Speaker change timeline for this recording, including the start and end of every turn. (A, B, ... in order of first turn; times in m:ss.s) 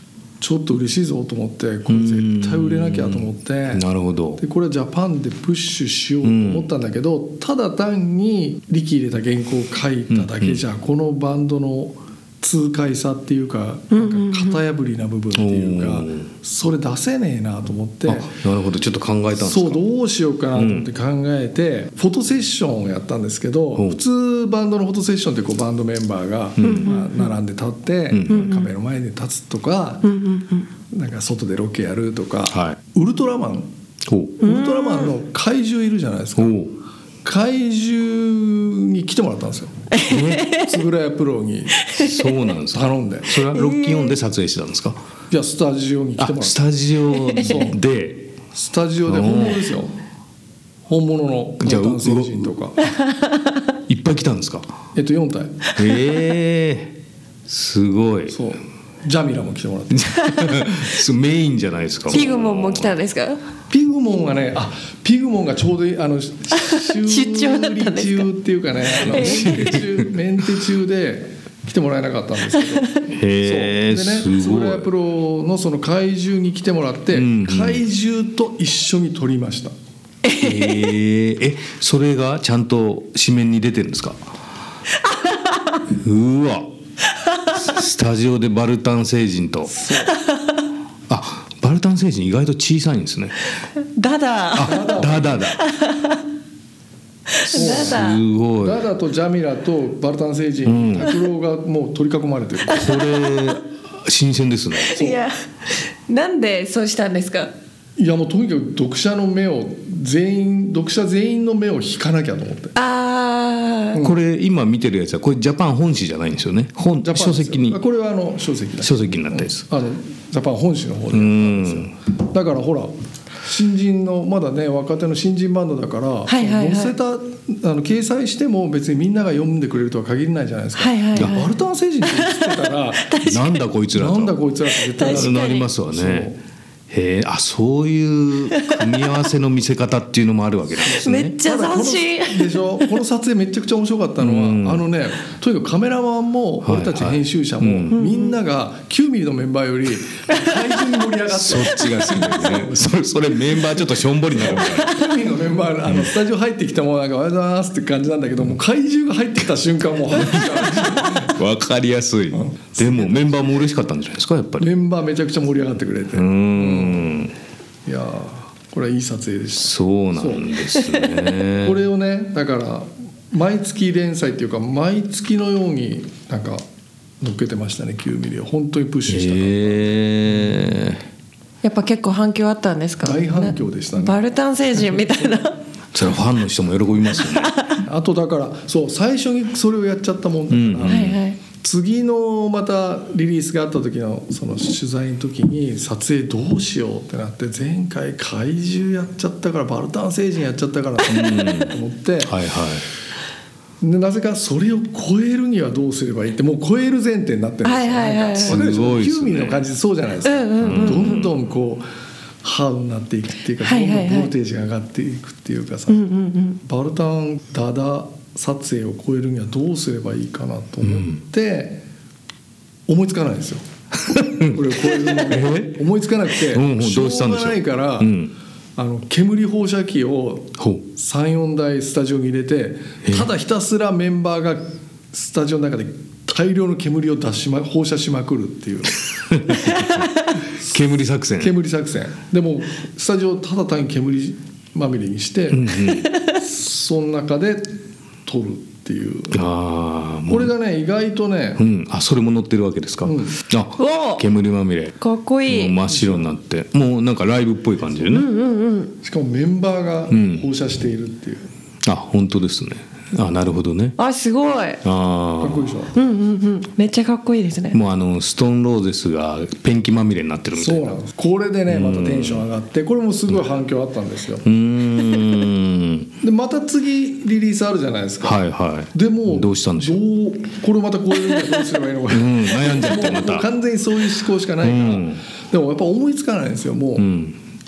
0:00.4-0:03.9 A
0:01.9-0:04.4 B
0:04.4-0:18.3 A
0:06.2-0:06.7 B
0:10.1-0:10.6 B
0:13.9-0:14.6 C
0:15.4-0:16.3 B
0:18.1-0:19.8 B
0:19.4-0:30.1 A
0:20.6-0:20.9 B
0:26.6-0:26.9 B
0:26.6-0:27.3 C
0:28.1-0:28.4 B
0:28.3-0:28.7 C
0:30.1-0:30.7 C
0:30.9-0:33.7 A
0:32.5-0:32.8 B
0:34.0-0:34.4 B
0:34.4-0:36.6 A
0:34.4-0:35.1 C
0:36.4-0:36.7 B
0:37.2-0:39.9 A
0:39.9-0:40.8 C
0:40.1-0:40.5 B
0:40.5-0:41.9 A
0:41.9-0:42.1 C
0:41.9-0:45.0 B
0:42.7-0:43.4 A
0:43.5-0:44.1 C
0:45.3-0:46.6 A
0:46.2-0:48.3 B
0:47.2-0:47.5 C
0:47.4-0:47.8 A
0:48.5-0:50.0 A
0:49.1-0:49.7 B
0:50.9-0:52.9 A
0:51.6-0:52.5 B
0:53.1-0:53.4 C
0:53.9-0:54.7 B
0:55.0-0:55.7 A
0:55.8-0:57.0 B
0:57.5-0:58.4 B
0:58.3-1:00.6 A
0:59.9-1:03.0 B
1:02.1-1:03.4 C
1:03.7-1:19.7 A
1:06.6-1:08.3 C
1:08.9-1:09.6 C
1:09.0-1:10.1 B
1:13.1-1:14.9 B
1:17.1-1:17.8 B
1:20.2-1:20.9 C
1:20.4-1:24.2 B
1:25.1-1:25.8 C
1:25.9-1:26.7 B
1:27.5-1:29.8 B
1:29.7-1:30.2 A
1:30.1-1:30.4 C
1:31.1-1:33.4 B
1:34.0-1:35.0 C
1:34.5-1:35.6 B
1:34.6-1:35.4 A
1:35.5-1:36.2 C
1:37.3-1:38.2 C
1:37.5-1:38.8 B
1:37.5-1:38.0 A
1:38.6-1:42.9 A
1:40.6-1:41.2 B
1:42.7-1:45.1 B
1:44.8-1:47.5 C
1:48.0-1:52.8 A
1:52.8-1:54.0 C
1:54.0-1:57.8 B
1:57.0-2:02.9 A
1:58.8-1:59.6 B
2:01.1-2:01.9 B
2:03.4-2:13.3 A
2:06.3-2:06.9 C
2:10.8-2:13.6 C
2:13.2-2:14.4 B
2:13.9-2:16.4 A
2:14.9-2:15.7 C
2:15.0-2:16.3 B
2:16.9-2:21.4 B
2:18.5-2:18.9 C
2:20.8-2:32.8 A
2:21.0-2:22.9 C
2:24.2-2:24.8 B
2:26.6-2:28.0 B
2:27.9-2:28.3 C
2:31.3-2:35.0 B
2:34.3-2:41.4 A
2:35.9-2:36.1 B
2:40.1-2:44.7 B
2:42.3-2:43.6 A
2:44.6-2:47.2 A
2:46.1-2:47.3 B
2:47.9-2:50.6 A
2:49.6-2:51.8 B
2:51.6-2:56.6 A
2:57.2-3:00.7 A
2:59.1-3:01.0 B
3:01.6-3:05.6 C
3:03.0-3:04.2 A
3:05.9-3:07.6 B
3:07.3-3:07.8 C
3:07.8-3:22.4 A
3:10.5-3:11.2 B
3:10.8-3:11.4 C
3:21.0-3:22.9 B
3:23.8-3:31.9 A
3:27.6-3:28.6 C
3:28.4-3:29.6 B
3:30.2-3:31.3 C
3:30.6-3:31.3 B
3:32.4-3:36.0 A
3:33.6-3:34.3 C
3:35.9-3:36.6 C
3:36.6-3:41.8 A
3:40.8-3:41.2 B
3:42.9-3:43.6 A
3:44.1-3:45.8 B
3:44.2-3:48.2 A
3:46.3-3:48.3 B
3:48.8-3:59.9 A
3:50.6-3:50.8 B
3:59.3-4:01.5 B
4:01.4-4:09.4 A
4:05.5-4:06.1 B
4:06.0-4:06.4 C
4:09.3-4:10.5 B
4:10.3-4:11.6 A
4:11.6-4:15.0 B
4:13.0-4:13.4 A
4:13.8-4:14.2 C
4:15.0-4:15.8 C
4:15.5-4:18.3 B
4:15.9-4:16.3 A
4:18.1-4:18.9 C
4:19.0-4:21.5 A
4:20.1-4:20.5 B
4:21.8-4:24.0 B
4:24.0-4:24.8 C
4:24.8-4:25.7 B
4:25.4-4:25.9 A
4:25.9-4:27.8 C
4:27.7-4:31.0 B
4:30.6-4:34.5 A
4:31.7-4:32.5 B
4:34.4-4:36.1 B
4:36.2-4:47.1 A
4:38.2-4:40.0 B
4:42.1-4:43.5 B
4:44.6-4:45.2 B
4:47.0-4:47.4 B